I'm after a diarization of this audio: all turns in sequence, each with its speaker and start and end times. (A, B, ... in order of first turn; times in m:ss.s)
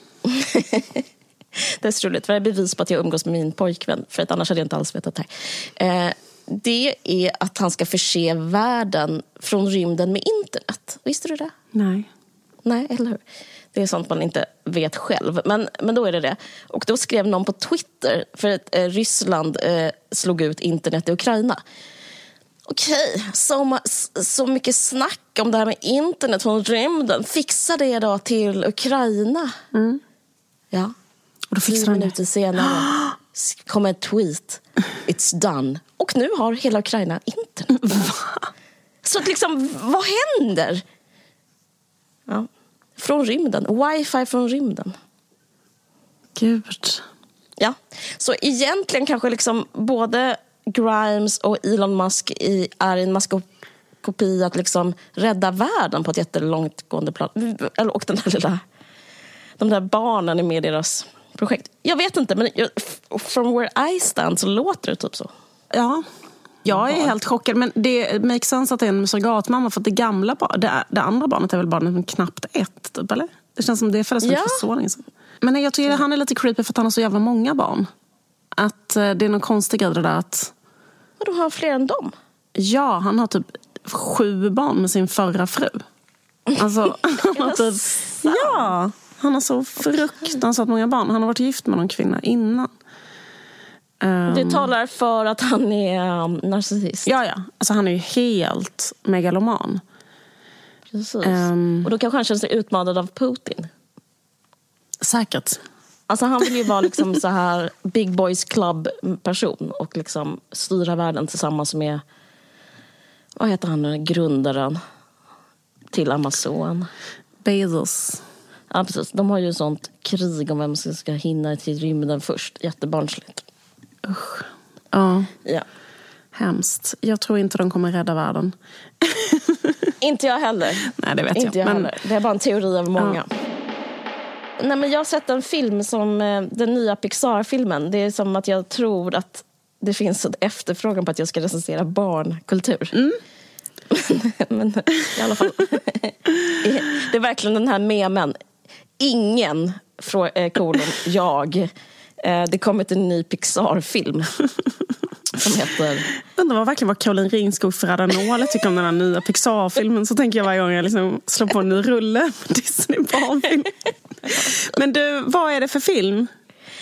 0:00.2-0:01.0 A
0:01.6-0:11.5 A
0:11.7-0:12.1 B
0:12.6-0:13.2 A
0:13.7-0:21.6 A
0:22.7-0:29.6 A
0:29.7-0:30.0 B
0:31.5-0:32.1 B
0:31.6-0:38.0 A
0:37.8-0:38.5 B
0:39.0-0:40.8 A
0:42.3-0:45.0 A
0:46.4-0:47.0 B
0:47.6-0:53.4 A
0:54.0-0:58.6 A
0:59.6-1:05.3 A
1:05.7-1:06.0 B
1:06.6-1:17.9 B
1:06.7-1:07.1 A
1:14.2-1:14.6 A
1:18.6-1:20.5 B
1:21.2-1:22.1 A
1:22.6-1:25.8 B
1:26.6-1:32.7 B
1:27.3-1:28.7 A
1:34.0-1:34.7 B
1:34.3-1:37.1 A
1:37.0-1:39.8 B
1:40.9-1:43.7 A
1:41.2-1:41.9 B
1:45.0-1:45.6 B
1:46.1-1:52.0 A
1:53.4-1:54.8 A
1:55.9-1:56.9 A
1:57.4-1:58.2 B
1:58.7-2:03.4 A
2:04.0-2:05.3 B
2:06.3-2:09.9 B
2:10.0-2:13.3 A
2:10.9-2:11.9 B
2:14.6-2:23.0 A
2:23.9-2:28.4 A
2:29.0-2:31.7 A
2:32.2-2:34.3 A
2:35.4-2:36.1 A
2:36.3-2:43.7 B
2:44.3-2:46.3 B